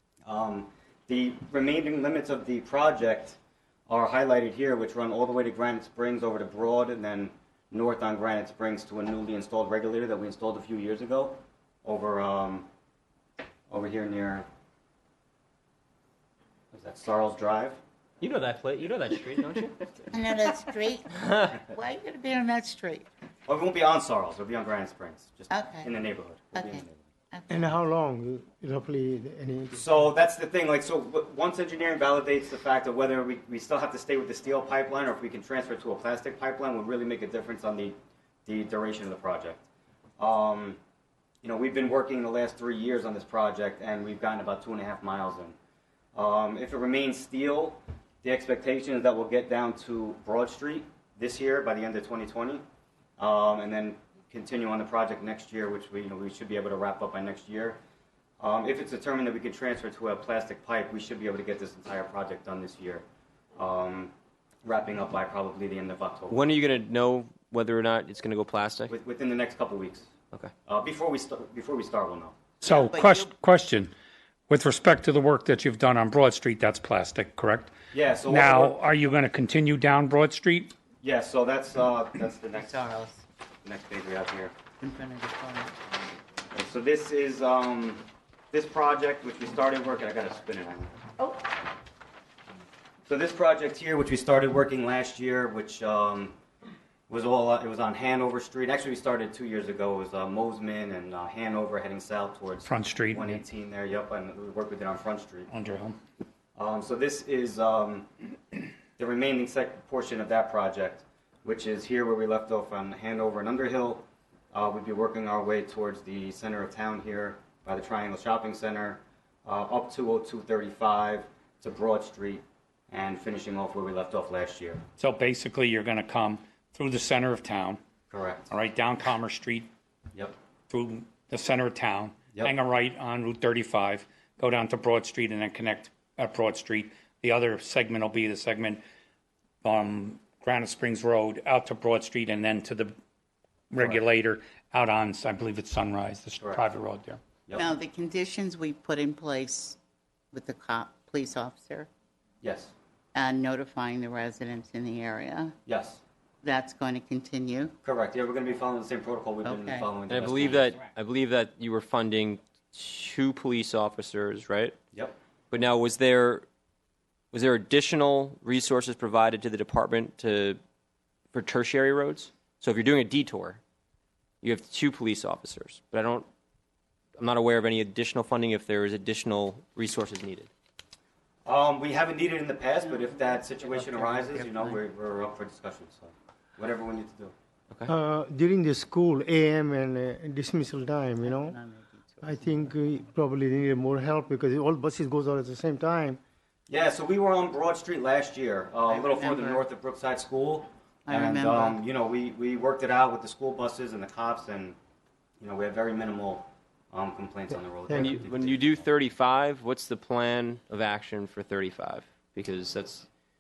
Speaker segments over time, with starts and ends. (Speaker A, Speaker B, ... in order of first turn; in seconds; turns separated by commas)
Speaker A: 0.2-12.7, Speaker A: 13.7-14.5, Speaker A: 16.7-17.8, Speaker B: 18.2-20.1, Speaker C: 20.1-23.1, Speaker B: 21.2-21.6, Speaker A: 23.5-27.1, Speaker C: 25.5-25.9, Speaker C: 26.5-27.8, Speaker D: 27.5-29.8, Speaker A: 29.7-39.7, Speaker A: 40.2-40.8, Speaker A: 41.4-45.6, Speaker A: 46.1-52.6, Speaker A: 53.2-57.8, Speaker A: 58.4-63.0, Speaker A: 63.6-64.1, Speaker A: 64.6-66.4, Speaker B: 66.3-68.9, Speaker A: 68.9-70.1, Speaker A: 70.7-72.4, Speaker E: 72.6-73.9, Speaker C: 72.7-73.3, Speaker E: 74.5-77.7, Speaker A: 77.9-78.8, Speaker E: 78.3-80.7, Speaker A: 81.0-82.8, Speaker C: 82.5-83.2, Speaker A: 83.7-84.5, Speaker C: 84.8-85.8, Speaker A: 86.5-90.9, Speaker A: 93.1-96.4, Speaker A: 97.1-105.5, Speaker E: 102.6-103.4, Speaker E: 105.5-106.0, Speaker A: 106.6-108.1, Speaker A: 109.0-124.8, Speaker E: 125.0-127.8, Speaker A: 128.1-128.5, Speaker E: 128.5-129.7, Speaker E: 130.7-138.8, Speaker E: 139.6-142.9, Speaker E: 143.7-147.2, Speaker C: 147.5-149.8, Speaker C: 150.3-151.9, Speaker A: 152.4-152.7, Speaker C: 153.2-155.6, Speaker A: 155.7-156.0, Speaker C: 156.4-157.7, Speaker A: 157.8-160.8, Speaker C: 159.4-159.9, Speaker B: 160.1-164.8, Speaker B: 165.5-166.4, Speaker B: 167.3-170.6, Speaker B: 171.3-173.6, Speaker B: 174.4-176.3, Speaker B: 177.2-180.5, Speaker A: 181.4-187.3, Speaker C: 183.0-184.8, Speaker D: 187.9-191.6, Speaker C: 191.2-192.7, Speaker D: 192.2-196.2, Speaker A: 196.7-204.8, Speaker C: 198.9-199.6, Speaker C: 201.1-201.8, Speaker A: 205.4-208.9, Speaker D: 207.9-208.2, Speaker B: 207.9-213.1